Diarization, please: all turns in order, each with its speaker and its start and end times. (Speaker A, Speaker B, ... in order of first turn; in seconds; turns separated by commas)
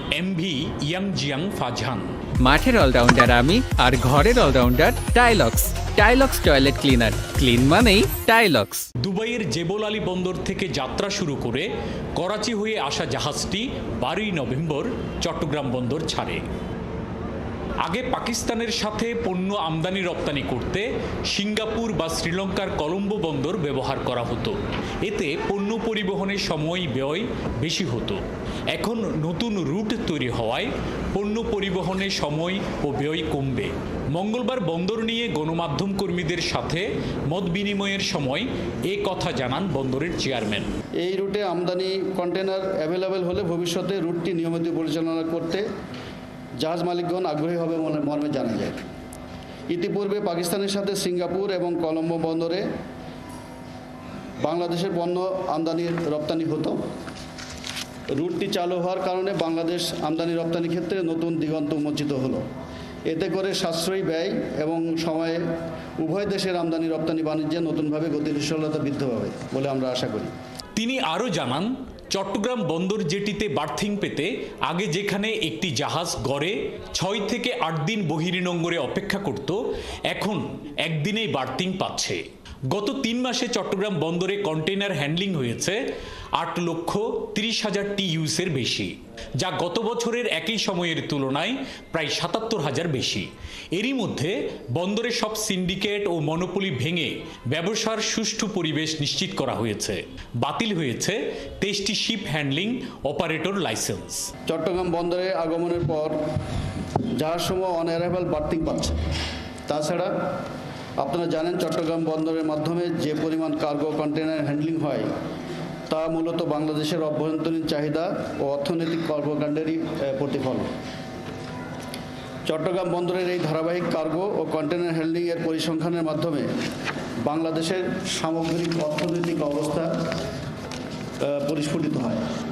Speaker A: 0.1-2.2, Speaker B: 2.4-8.9, Speaker A: 9.0-16.4, Speaker A: 17.8-28.2, Speaker A: 28.7-40.7, Speaker C: 41.0-45.6, Speaker C: 46.6-48.8, Speaker C: 49.7-52.6, Speaker C: 54.4-56.8, Speaker C: 58.1-62.4, Speaker C: 63.1-65.4, Speaker C: 66.0-70.3, Speaker A: 70.8-79.6, Speaker A: 80.1-82.2, Speaker A: 82.7-85.8, Speaker A: 86.4-104.3, Speaker C: 104.5-106.2, Speaker C: 107.2-109.0, Speaker C: 109.7-110.1, Speaker C: 111.0-115.0, Speaker C: 115.9-120.7, Speaker C: 122.5-126.5, Speaker C: 127.2-129.9, Speaker C: 131.2-132.2